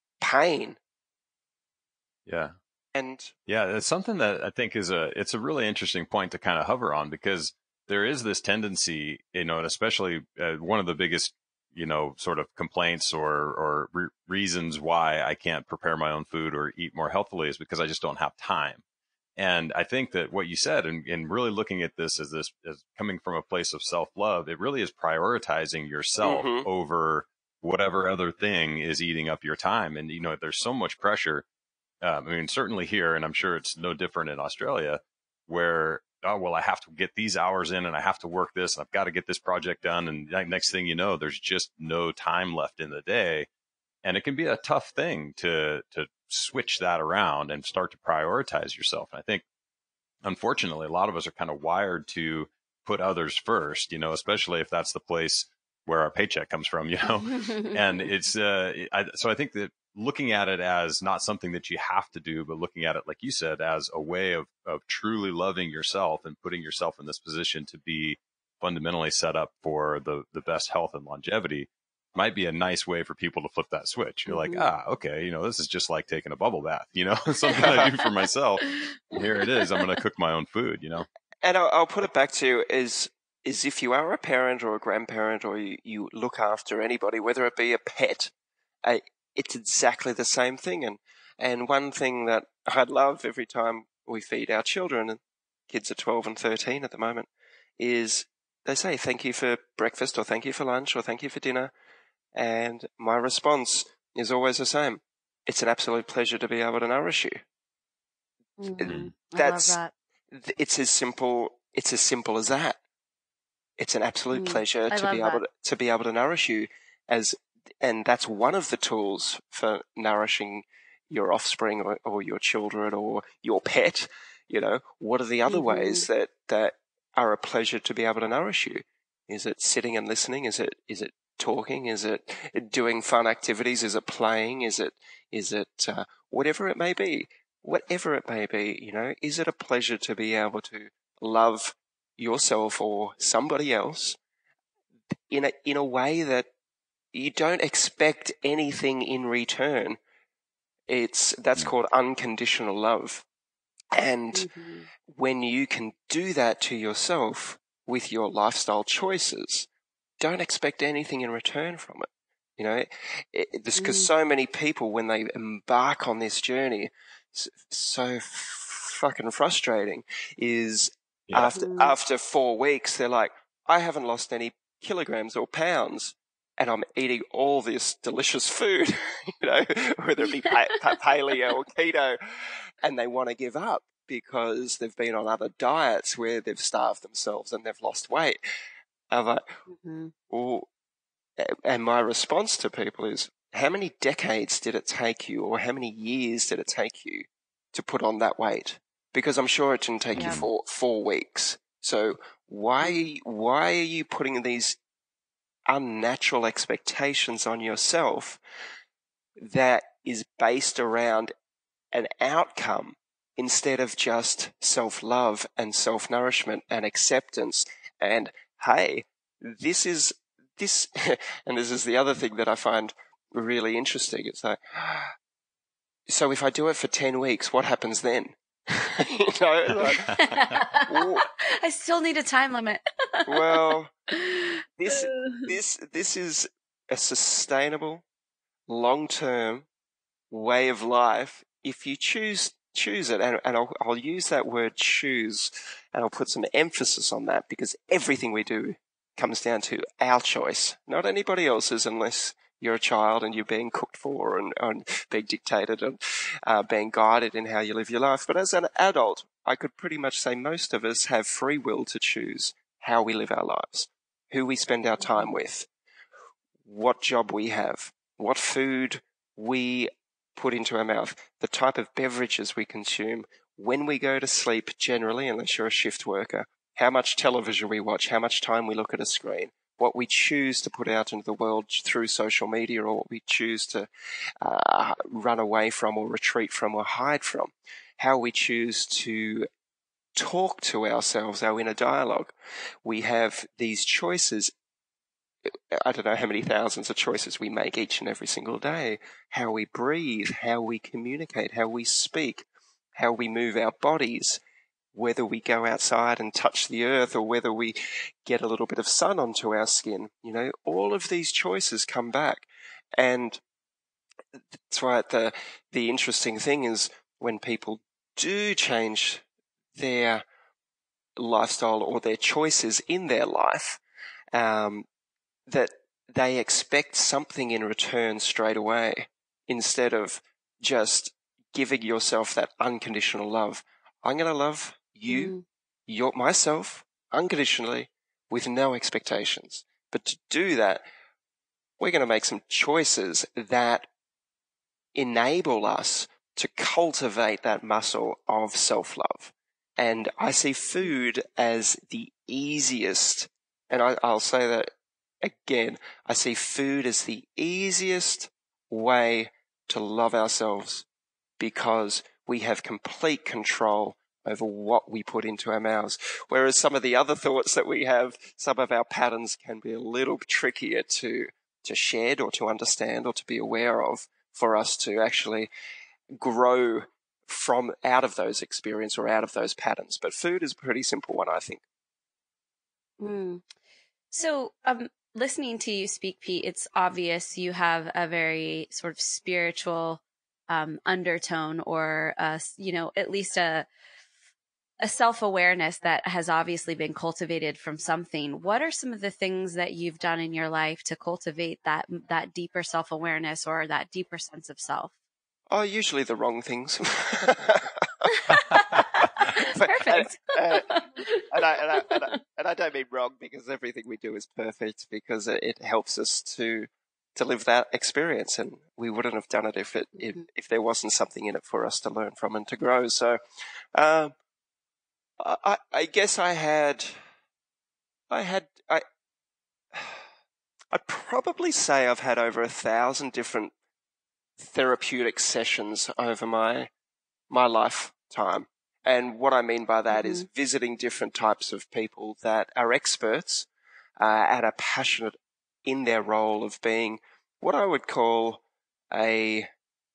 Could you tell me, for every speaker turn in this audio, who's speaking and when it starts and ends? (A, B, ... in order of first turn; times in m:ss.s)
0:00.2-0:00.8 A
0:02.3-0:02.6 B
0:03.0-0:03.3 A
0:03.5-0:18.8 B
0:19.4-0:31.4 B
0:26.2-0:26.7 A
0:32.0-0:43.5 B
0:44.0-0:49.4 B
0:50.2-1:21.1 B
1:14.3-1:14.7 C
1:17.5-1:17.9 A
1:18.7-1:19.0 C
1:19.5-1:19.8 C
1:21.4-1:28.3 A
1:28.8-1:37.3 A
1:37.8-1:41.7 A
1:42.3-1:47.4 A
1:48.6-1:49.9 C
1:48.8-1:49.8 A
1:48.9-1:49.1 B
1:50.3-1:52.8 A
1:53.8-2:24.2 A
1:54.3-1:55.4 C
2:05.5-2:06.1 C
2:25.3-2:26.5 A
2:27.1-2:30.0 A
2:30.9-2:33.2 A
2:33.9-2:34.5 A
2:34.3-2:34.9 C
2:35.1-2:39.7 A
2:40.2-3:08.4 A
2:43.8-2:44.1 C
2:51.6-2:52.0 C
3:09.1-3:09.4 A
3:09.7-3:10.1 C
3:10.3-3:10.7 A
3:11.4-3:24.8 A
3:20.1-3:20.5 B
3:20.2-3:20.4 C
3:22.8-3:23.1 C
3:25.7-3:28.4 A
3:29.4-3:31.3 A
3:31.9-3:45.1 A
3:46.1-3:50.2 A
3:49.8-3:55.5 C
3:50.9-3:51.3 A
3:53.3-3:53.9 A
3:54.8-3:58.0 A
3:58.7-3:59.7 A
4:00.3-4:25.7 A
4:25.0-4:25.3 C
4:26.6-4:43.9 A
4:44.4-4:49.5 A
4:50.2-4:52.3 A
4:52.8-4:54.5 A
4:55.4-5:02.4 A
5:03.0-5:04.4 A
5:04.9-5:13.4 A
5:14.7-5:19.2 A
5:19.8-5:20.2 A
5:21.2-5:23.8 A
5:24.3-5:24.9 A
5:25.5-5:35.3 A
5:35.1-5:35.4 C
5:35.9-5:40.8 A
5:41.8-5:43.9 A
5:45.0-5:54.7 A
5:55.2-6:00.9 A
6:01.4-6:15.5 A
6:16.2-6:21.6 A
6:23.0-6:23.4 C
6:24.1-6:33.7 C
6:34.8-6:44.9 C
6:45.5-6:48.0 A
6:48.1-6:51.3 C
6:49.2-6:50.7 A
6:51.3-7:03.2 A
7:03.8-7:04.1 A
7:05.2-7:07.0 A
7:08.1-7:08.8 A
7:09.7-7:10.0 A
7:10.7-7:13.5 A
7:14.4-7:16.7 A
7:17.3-7:23.5 A
7:19.9-7:20.3 C
7:24.0-7:29.5 A